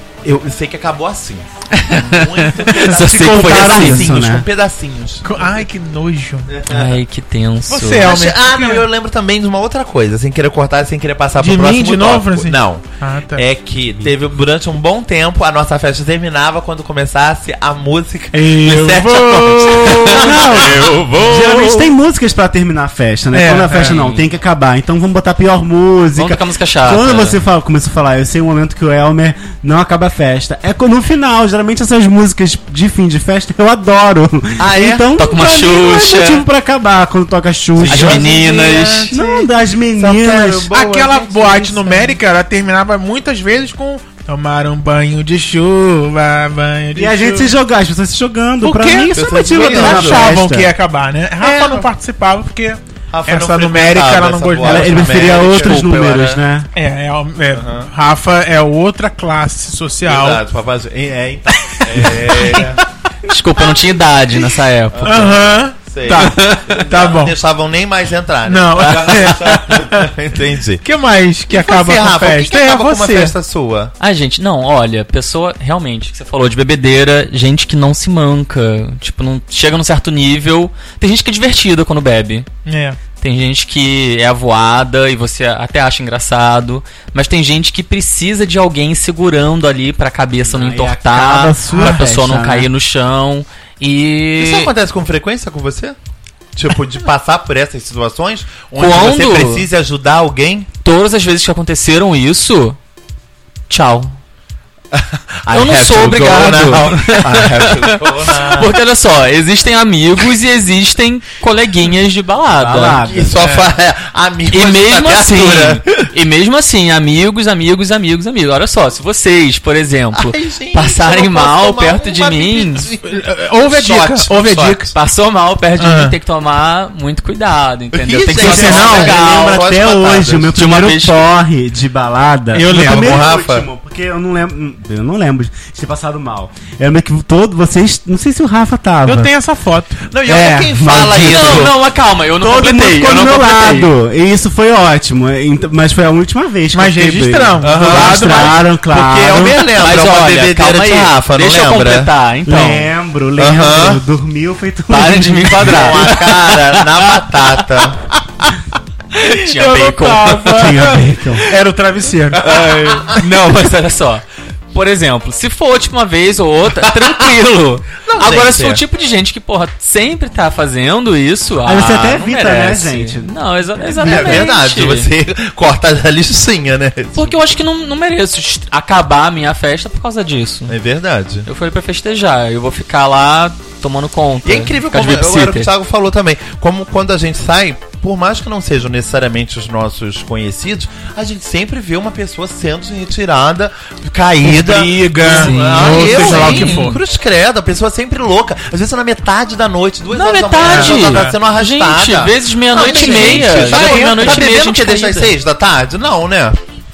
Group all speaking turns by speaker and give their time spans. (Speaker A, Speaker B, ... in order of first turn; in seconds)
Speaker A: 0.2-5.3, 6.5-7.0, 8.0-12.8, 13.3-21.4, 34.6-35.1, 37.8-42.1, 49.1-50.3, 51.4-51.9, 53.1-55.8, 57.5-57.9, 60.1-62.8, 64.9-70.8, 71.5-73.9, 94.4-96.0, 96.5-100.7, 104.9-108.7, 113.0-116.0, 120.1-124.9, 127.9-130.6, 132.7-133.7, 140.1-141.7, 147.6-152.1, 153.4-154.0, 155.6-158.1, 162.4-163.2, 168.1-168.8, 171.8-172.3, 174.0-177.5, 180.7-181.5, 184.4-206.6
Speaker B: 1.7-4.1, 6.7-8.2, 20.2-21.6, 23.8-24.3, 26.1-27.4, 35.2-36.5, 37.9-39.1, 55.2-56.4, 63.3-65.3, 74.0-82.5, 83.2-94.7, 98.8-99.7, 100.8-102.8, 103.7-104.2, 105.5-113.0, 114.5-122.9, 124.9-129.5, 130.6-131.3, 141.1-143.9, 149.8-152.9, 154.9-157.8, 159.2-160.7, 162.5-175.1, 177.2-180.8, 181.5-185.7, 195.3-197.0, 200.1-205.3
Speaker C: 2.9-4.5, 20.1-38.3, 39.1-40.7, 47.0-50.7, 54.6-56.7, 90.5-92.7, 112.6-113.4, 128.4-139.3, 140.3-141.7, 142.4-149.6, 152.5-156.1, 160.5-161.4, 171.7-174.5
Speaker D: 5.2-6.5, 7.7-8.9, 11.4-13.4, 18.3-20.6, 21.3-21.9, 23.3-24.0, 40.7-47.6, 48.6-55.2, 56.8-60.4, 61.6-62.8, 65.0-67.4, 68.5-70.1, 70.8-73.3, 82.7-83.0, 91.7-92.0, 113.4-113.7, 123.0-124.9, 125.8-126.2, 132.5-133.3, 139.1-140.4, 146.7-148.6, 159.4-162.4, 194.4-197.0, 200.6-201.4, 202.8-204.5